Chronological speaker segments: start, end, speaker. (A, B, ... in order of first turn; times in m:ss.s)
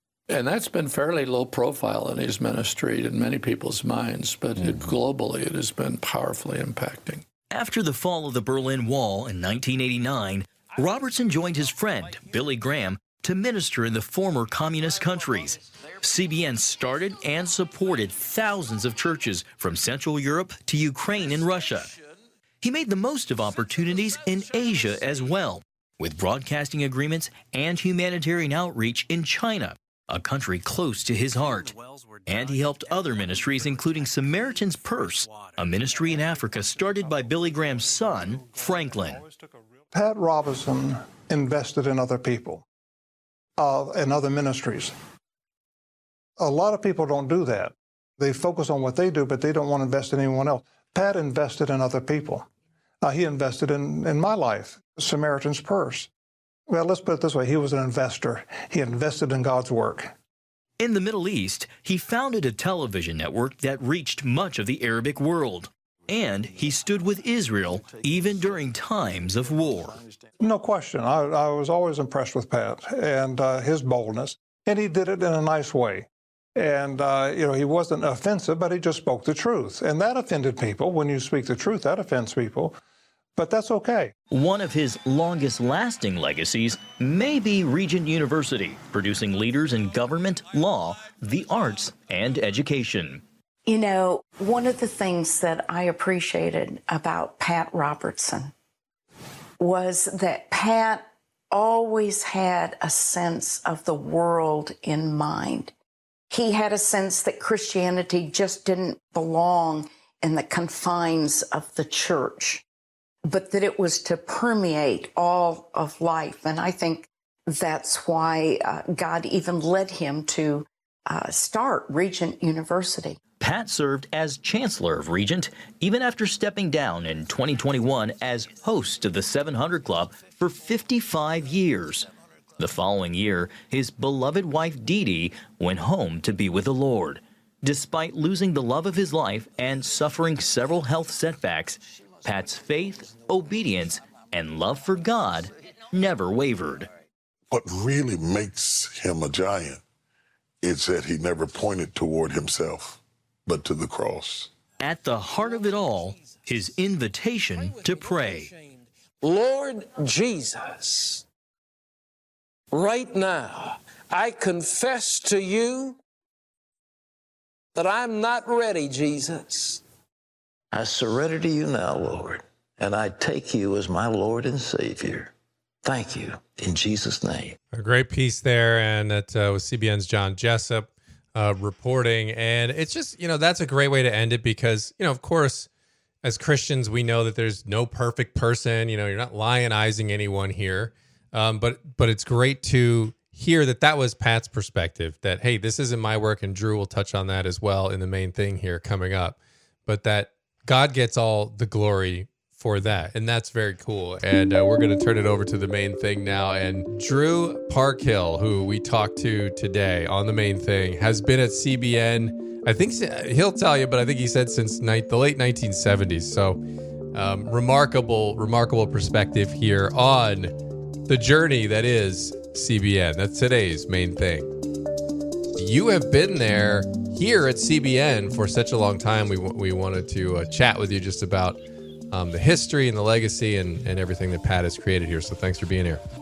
0:00.3-0:07.2 A
0:07.5-0:21.9 B
0:22.6-0:31.7 B
0:32.2-0:39.2 B
0:39.9-0:42.6 C
0:43.6-0:44.9 C
0:46.4-0:52.5 C
0:53.0-0:56.1 C
0:56.7-1:00.1 C
1:00.8-1:10.0 B
1:10.4-1:22.8 C
1:23.4-1:24.1 C
1:24.3-1:33.2 B
1:33.7-1:38.5 D
1:39.6-1:45.7 D
1:46.3-1:52.6 D
1:53.2-2:03.2 D
2:03.4-2:26.9 B
2:27.5-2:29.8 E
2:30.6-2:34.5 E
2:34.8-2:38.5 B
2:37.9-2:38.3 F
2:39.2-2:41.2 F
2:42.7-2:46.0 F
2:47.7-2:49.8 F
2:50.7-2:55.3 G
2:55.8-2:57.6 G
2:57.7-3:05.7 H
3:06.2-3:36.6 H
3:37.1-3:40.5 H
3:41.1-3:44.5 H
3:45.6-3:51.6 H
3:52.1-3:56.0 H